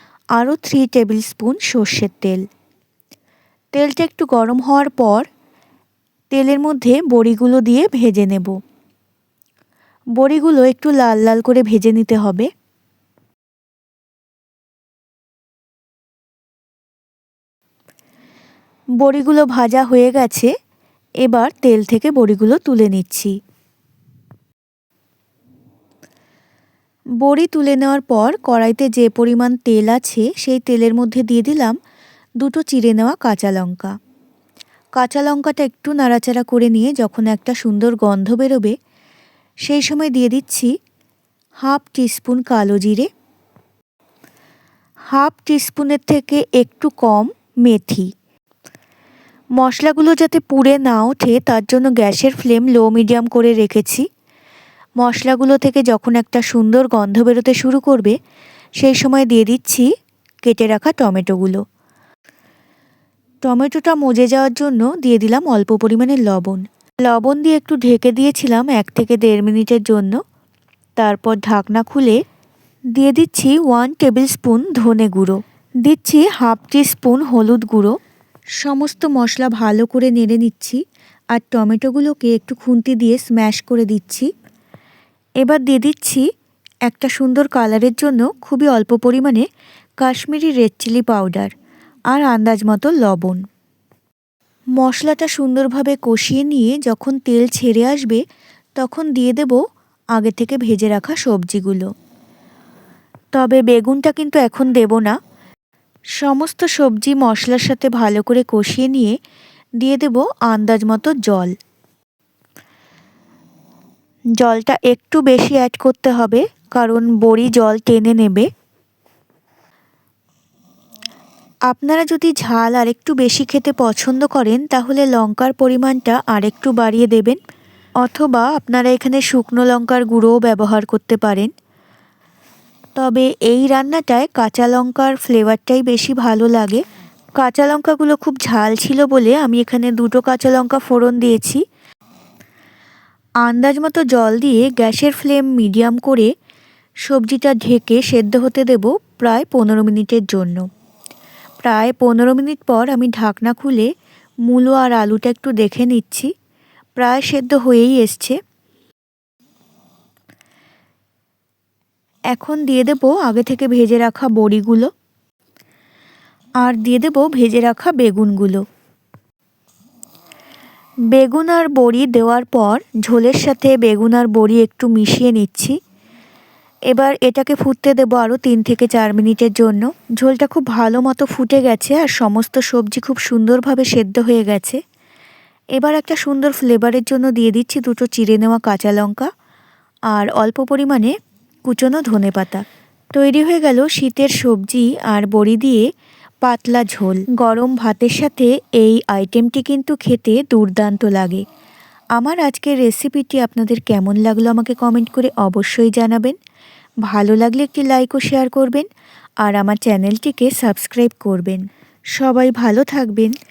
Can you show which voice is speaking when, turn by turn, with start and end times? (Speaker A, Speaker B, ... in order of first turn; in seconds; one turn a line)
Speaker A: 0.3-2.4
Speaker A: 3.7-5.3
Speaker A: 6.3-8.5
Speaker A: 10.2-12.5
Speaker A: 19.0-20.5
Speaker A: 21.2-23.3
Speaker A: 27.2-31.8
Speaker A: 32.4-34.0
Speaker A: 35.0-38.8
Speaker A: 39.6-40.7
Speaker A: 41.6-43.1
Speaker A: 45.1-48.1
Speaker A: 49.6-54.0
Speaker A: 55.0-58.1
Speaker A: 58.8-59.9
Speaker A: 60.4-61.6
Speaker A: 63.4-70.2
Speaker A: 71.0-72.2
Speaker A: 73.0-77.9
Speaker A: 78.6-80.8
Speaker A: 81.3-84.3
Speaker A: 85.4-86.2
Speaker A: 86.9-89.5
Speaker A: 90.0-91.5
Speaker A: 92.1-93.4
Speaker A: 94.8-98.2
Speaker A: 98.8-99.6
Speaker A: 100.2-101.9
Speaker A: 103.3-105.2
Speaker A: 106.2-109.2
Speaker A: 109.8-111.5
Speaker A: 114.4-118.5
Speaker A: 121.7-127.4
Speaker A: 128.0-131.5
Speaker A: 133.0-136.8
Speaker A: 137.4-141.6
Speaker A: 143.4-146.3
Speaker A: 147.1-150.6
Speaker A: 151.6-153.9
Speaker A: 154.5-156.3
Speaker A: 157.0-158.4
Speaker A: 162.3-164.9
Speaker A: 166.6-168.6
Speaker A: 171.1-175.7
Speaker A: 176.9-184.8
Speaker A: 185.8-189.3
Speaker A: 190.1-191.1
Speaker A: 191.7-192.6
Speaker A: 193.1-195.8
Speaker A: 196.4-201.4
Speaker A: 202.2-206.4
Speaker A: 207.1-208.9
Speaker A: 209.4-211.6
Speaker A: 212.2-213.3